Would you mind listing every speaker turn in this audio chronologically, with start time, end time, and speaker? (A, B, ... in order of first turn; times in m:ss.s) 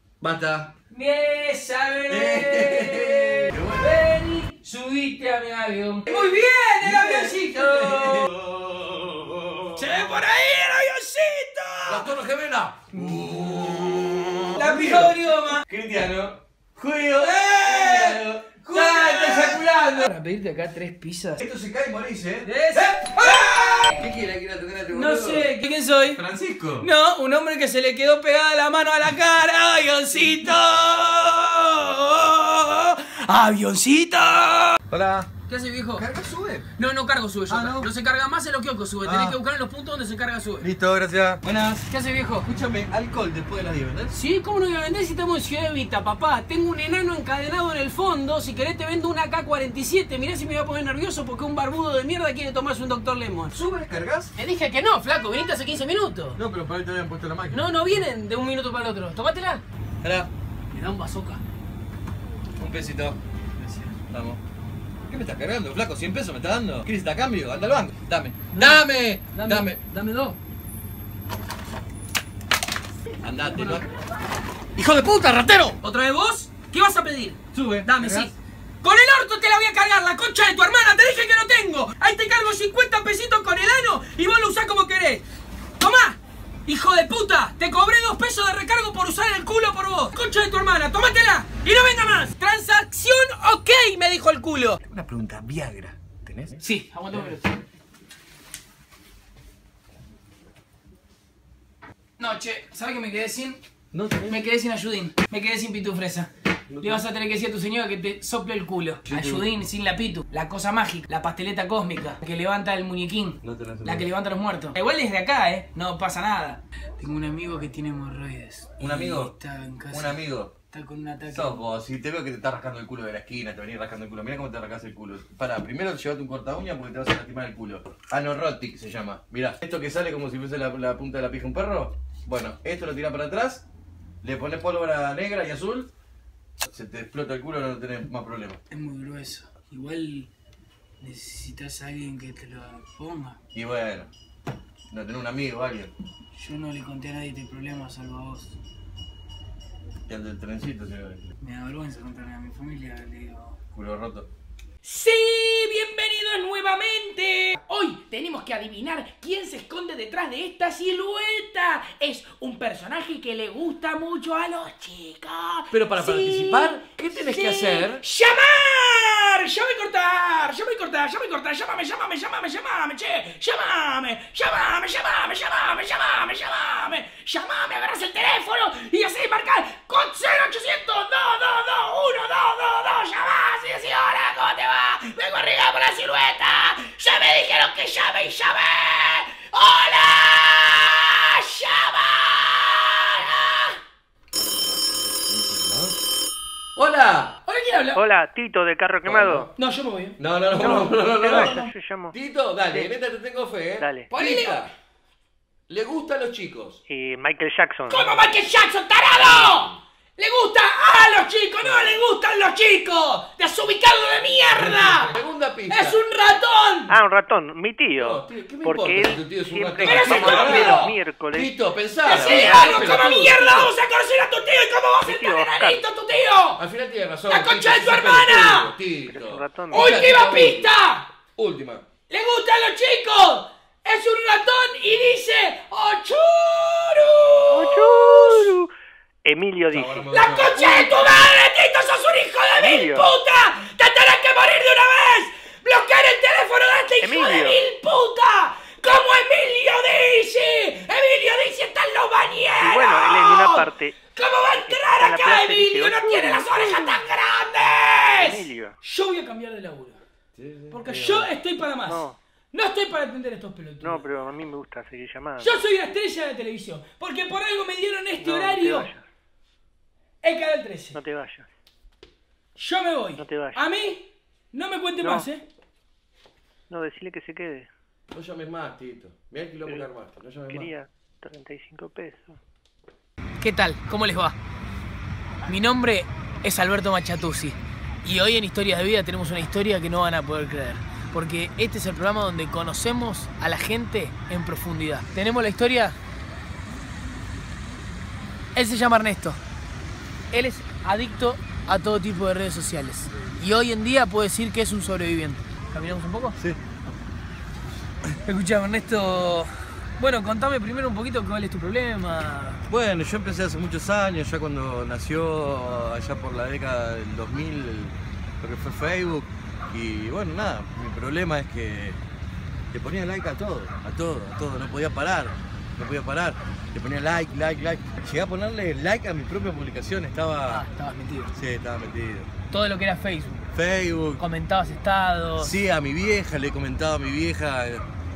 0:00.2-0:00.7 A
0:00.9-0:08.3 B
0:02.1-0:04.0 A
0:06.1-0:10.0 A
0:09.7-0:12.1 B
0:11.9-0:20.1 A
0:12.9-0:15.6 B
0:17.2-0:21.4 B
0:21.4-0:25.5 A
0:22.4-0:24.1 B
0:24.9-0:26.2 B
0:26.1-0:26.9 A
0:26.8-0:34.8 B
0:34.9-0:35.3 A
0:35.5-0:36.0 B
0:36.0-0:36.7 A
0:36.8-0:40.7 B
0:37.5-0:37.9 A
0:39.0-0:39.4 A
0:40.6-0:41.9 A
0:41.9-0:42.5 B
0:42.4-0:44.2 A
0:44.1-0:53.6 B
0:53.5-0:54.3 A
0:54.4-0:56.4 B
0:56.4-0:57.7 A
0:57.5-0:59.6 B
1:00.0-1:00.3 A
1:00.7-1:01.4 B
1:02.6-1:03.2 A
1:03.6-1:03.9 B
1:04.1-1:04.4 A
1:05.1-1:09.8 A
1:08.5-1:10.4 B
1:13.2-1:13.9 A
1:13.5-1:13.9 B
1:14.7-1:15.8 A
1:15.8-1:25.2 B
1:17.5-1:18.3 A
1:25.8-1:34.8 B
1:34.8-1:37.4 A
1:36.6-1:37.6 B
1:42.2-1:43.6 B
1:43.9-1:44.4 A
1:44.2-1:46.3 B
1:46.7-1:47.0 A
1:46.8-2:01.6 B
1:49.1-1:49.5 A
1:53.4-1:54.1 A
1:58.8-1:59.3 A
1:59.9-2:00.5 A
2:01.3-2:13.6 A
2:14.2-2:15.9 A
2:16.6-2:18.6 A
2:18.7-2:20.3 B
2:21.0-2:23.4 B
2:23.5-2:24.1 A
2:24.9-2:25.9 A
2:26.3-2:28.6 B
2:30.1-2:31.3 A
2:31.4-2:33.6 B
2:33.7-2:34.3 A
2:34.8-3:13.7 B
2:45.7-2:48.0 A
3:14.3-3:16.0 A
3:16.8-3:17.4 A
3:17.4-3:18.0 B
3:17.9-3:19.5 C
3:19.0-3:19.5 A
3:19.6-3:21.6 B
3:20.2-3:24.7 A
3:20.6-3:22.2 C
3:23.8-3:24.1 C
3:24.1-3:24.7 B
3:25.7-3:26.8 A
3:26.9-3:28.4 C
3:27.9-3:35.2 B
3:29.1-3:29.8 A
3:34.5-3:36.0 A
3:35.7-3:36.9 B
3:36.9-3:43.7 C
3:38.0-3:43.4 A
3:39.8-3:40.9 B
3:42.0-3:46.6 B
3:45.0-3:45.8 C
3:46.6-3:50.7 A
3:47.3-3:48.7 B
3:49.0-3:50.1 C
3:49.7-3:51.1 B
3:51.4-3:51.8 A
3:52.1-3:58.6 B
3:57.5-3:58.7 C
3:59.2-4:00.1 C
3:59.7-4:00.8 A
4:00.1-4:20.0 B
4:02.6-4:03.1 C
4:07.0-4:07.7 C
4:12.6-4:14.1 C
4:14.6-4:17.0 C
4:17.9-4:18.8 C
4:20.3-4:21.3 A
4:20.7-4:24.0 B
4:21.9-4:22.2 C
4:23.8-4:25.6 C
4:25.4-4:28.9 B
4:28.2-4:29.0 C
4:30.2-4:31.0 B
4:30.9-4:31.5 C
4:32.6-4:35.4 B
4:33.2-4:33.6 C
4:35.0-4:35.3 C
4:36.7-4:37.7 C
4:38.1-4:40.7 A
4:40.5-4:42.4 C
4:43.4-4:44.4 B
4:45.4-4:56.0 B
4:58.5-4:59.4 B
5:00.3-5:06.4 B
5:06.4-5:06.7 A
5:08.2-5:12.6 B
5:12.7-5:22.0 A
5:22.7-5:30.6 A
5:30.5-5:31.3 B
5:31.3-5:32.3 A
5:32.5-5:33.5 B
5:33.5-5:34.2 A
5:34.2-5:35.6 B
5:35.4-5:37.8 A